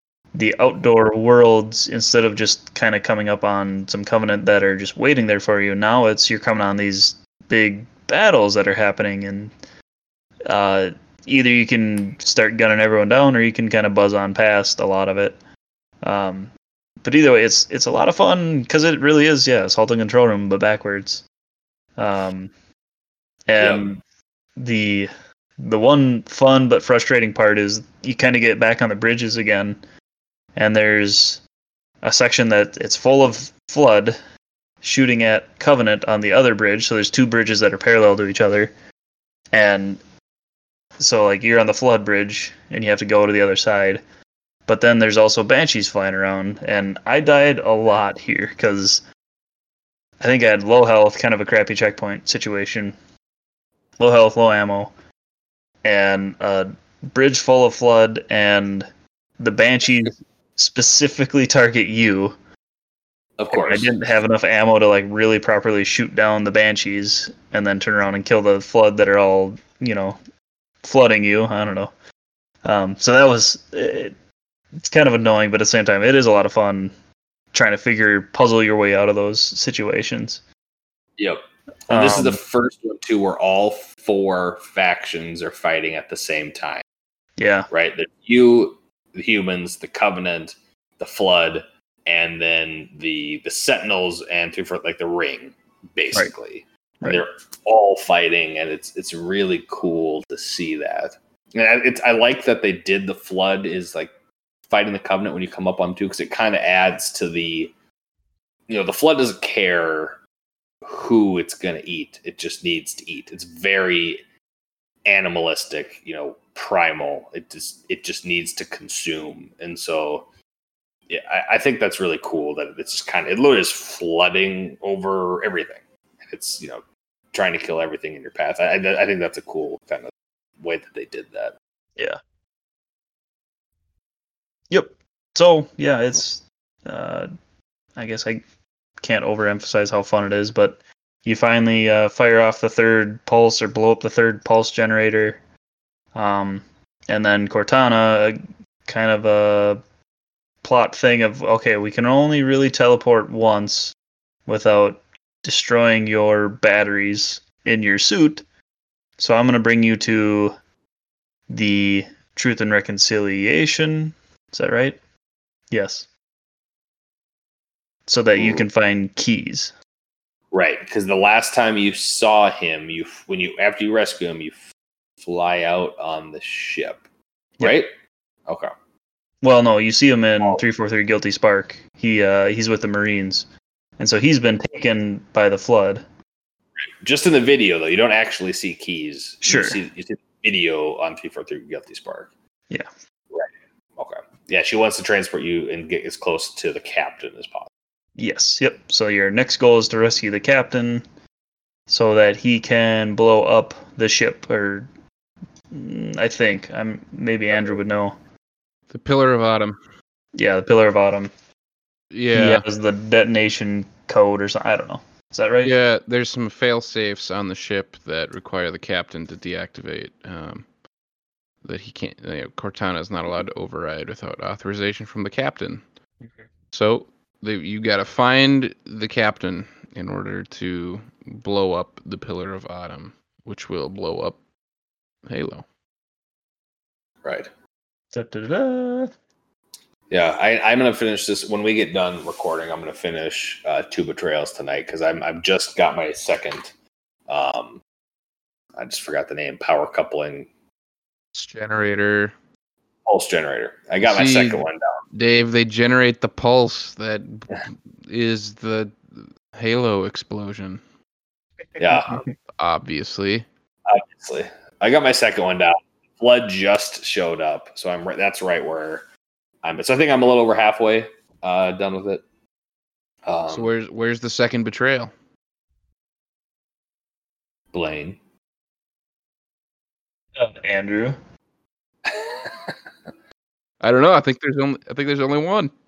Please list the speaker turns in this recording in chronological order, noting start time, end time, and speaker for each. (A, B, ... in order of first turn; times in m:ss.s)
0:00.3-0:09.5 A
0:10.4-0:15.4 A
0:16.0-0:16.5 A
0:17.0-0:21.2 A
0:22.0-0:22.5 A
0:23.5-0:24.0 A
0:23.6-0:23.8 B
0:24.6-0:29.8 A
0:30.6-0:31.4 A
0:32.0-0:34.2 A
0:34.8-0:38.7 A
0:39.5-0:40.0 A
0:41.0-0:44.0 A
0:44.7-0:49.0 A
0:50.2-0:53.0 A
0:54.0-0:54.9 A
0:55.8-1:02.4 A
1:03.4-1:03.9 B
1:03.5-1:10.2 A
1:10.8-1:11.9 A
1:12.6-1:14.1 A
1:14.8-1:16.9 A
1:17.5-1:20.4 A
1:21.2-1:26.8 B
1:21.9-1:22.4 A
1:27.4-1:27.7 A
1:27.7-1:44.1 B
1:44.7-1:47.7 B
1:48.7-1:50.2 B
1:50.8-1:54.2 B
1:55.0-2:00.3 B
2:01.1-2:11.6 B
2:14.7-2:17.3 A
2:18.0-2:18.4 A
2:19.0-2:25.4 A
2:26.1-2:29.8 A
2:30.6-2:33.9 A
2:34.5-2:38.4 A
2:39.2-2:40.5 A
2:41.5-2:45.0 A
2:45.7-2:46.1 A
2:48.1-2:49.7 A
2:48.4-2:48.6 B
2:50.5-2:57.0 B
2:57.6-2:57.9 B
2:58.5-2:58.7 B
2:59.4-3:06.0 A
3:07.0-3:12.3 B
3:09.4-3:09.8 A
3:13.3-3:17.7 B
3:18.2-3:21.0 A
3:21.9-3:24.9 A
3:25.7-3:28.2 A
3:28.9-3:29.8 C
3:30.3-3:31.3 A
3:32.1-3:32.6 C
3:32.3-3:35.7 A
3:35.6-3:40.7 C
3:41.6-3:45.8 C
3:46.7-3:54.4 C
3:55.3-3:55.6 C
3:57.2-3:57.5 B
3:58.1-3:59.1 A
4:00.1-4:06.7 B
4:07.3-4:07.8 B
4:08.8-4:10.5 B
4:11.3-4:12.3 C
4:13.0-4:15.0 B
4:14.0-4:20.8 C
4:21.8-4:22.2 B
4:22.1-4:23.4 C
4:23.8-4:29.0 B
4:29.6-4:32.2 B
4:33.2-4:33.7 B
4:33.5-4:35.1 C
4:37.7-4:38.2 B
4:40.4-4:41.2 A
4:42.0-4:42.7 B
4:43.8-4:45.7 C